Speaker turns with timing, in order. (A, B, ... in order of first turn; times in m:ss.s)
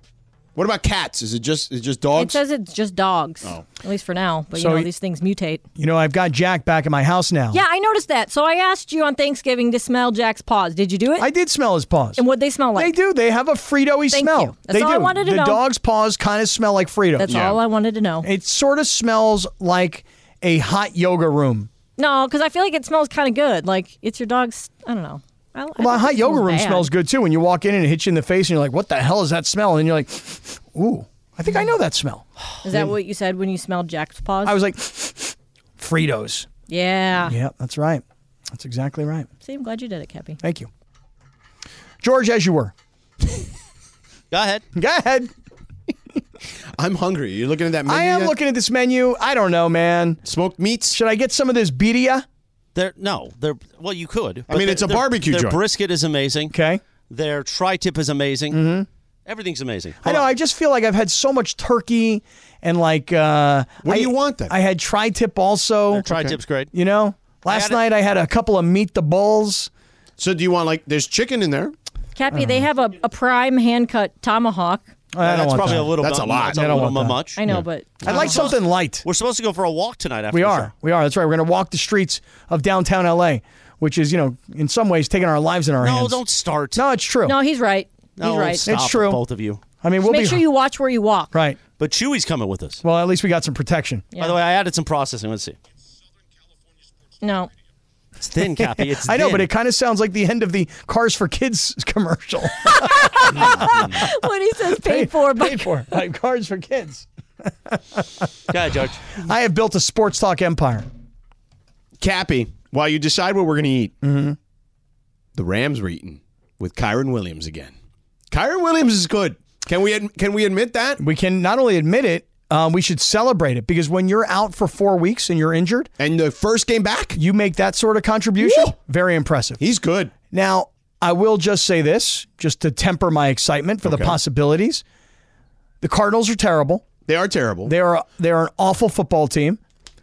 0:00.6-0:02.4 A
0:02.1-0:05.6 B
0:04.5-0:04.9 C
0:05.8-0:07.6 C
0:07.5-0:11.3 B
0:11.2-0:12.2 C
0:12.2-0:12.9 B
0:12.7-0:17.5 C
0:14.1-0:15.6 B
0:17.2-0:18.3 B
0:17.3-0:17.6 A
0:18.2-0:21.7 C
0:22.0-0:26.9 B
0:25.8-0:32.9 C
0:32.6-0:34.6 B
0:34.4-0:36.5 C
0:36.7-0:37.4 B
0:37.2-0:39.3 C
0:39.4-0:40.4 B
0:40.4-0:40.7 C
0:42.0-0:42.7 C
0:44.3-0:44.6 D
0:44.7-0:45.3 C
0:46.8-0:48.3 A
0:47.8-0:50.2 C
0:50.2-0:51.0 A
0:50.9-0:52.2 C
0:52.7-0:56.5 D
0:54.5-0:55.6 A
0:56.5-0:56.8 C
0:57.1-0:58.6 D
0:58.5-0:58.9 C
0:59.2-1:00.3 D
1:00.0-1:06.1 C
1:03.8-1:04.5 A
1:05.9-1:06.7 D
1:06.1-1:06.4 A
1:06.7-1:09.7 C
1:07.5-1:07.8 D
1:10.2-1:11.7 A
1:12.2-1:14.8 B
1:12.3-1:12.6 C
1:15.1-1:17.2 C
1:15.2-1:17.4 D
1:16.0-1:16.9 A
1:17.4-1:18.6 B
1:17.5-1:18.0 A
1:18.0-1:19.0 C
1:18.1-1:18.5 D
1:19.0-1:20.7 D
1:20.3-1:26.2 C
1:25.8-1:26.8 D
1:26.7-1:27.4 C
1:27.2-1:28.6 B
1:28.2-1:29.6 D
1:28.6-1:29.2 C
1:29.8-1:30.4 C
1:30.0-1:31.3 B
1:31.3-1:31.6 C
1:31.8-1:32.8 D
1:32.8-1:34.1 C
1:34.2-1:35.6 D
1:37.2-1:37.5 B
1:38.2-1:39.5 D
1:38.4-1:44.1 C
1:42.7-1:45.7 B
1:44.7-1:48.3 C
1:48.5-1:49.1 D
1:49.2-1:50.9 C
1:52.0-1:53.9 A
1:54.0-1:54.4 C
1:55.4-1:57.7 A
1:58.3-2:01.0 A
2:01.0-2:05.9 C
2:06.0-2:07.2 A
2:07.2-2:09.6 C
2:08.4-2:08.7 A
2:09.6-2:10.1 A
2:10.3-2:14.8 C
2:13.8-2:14.2 A
2:15.8-2:16.9 C
2:17.0-2:17.7 A
2:17.6-2:19.6 C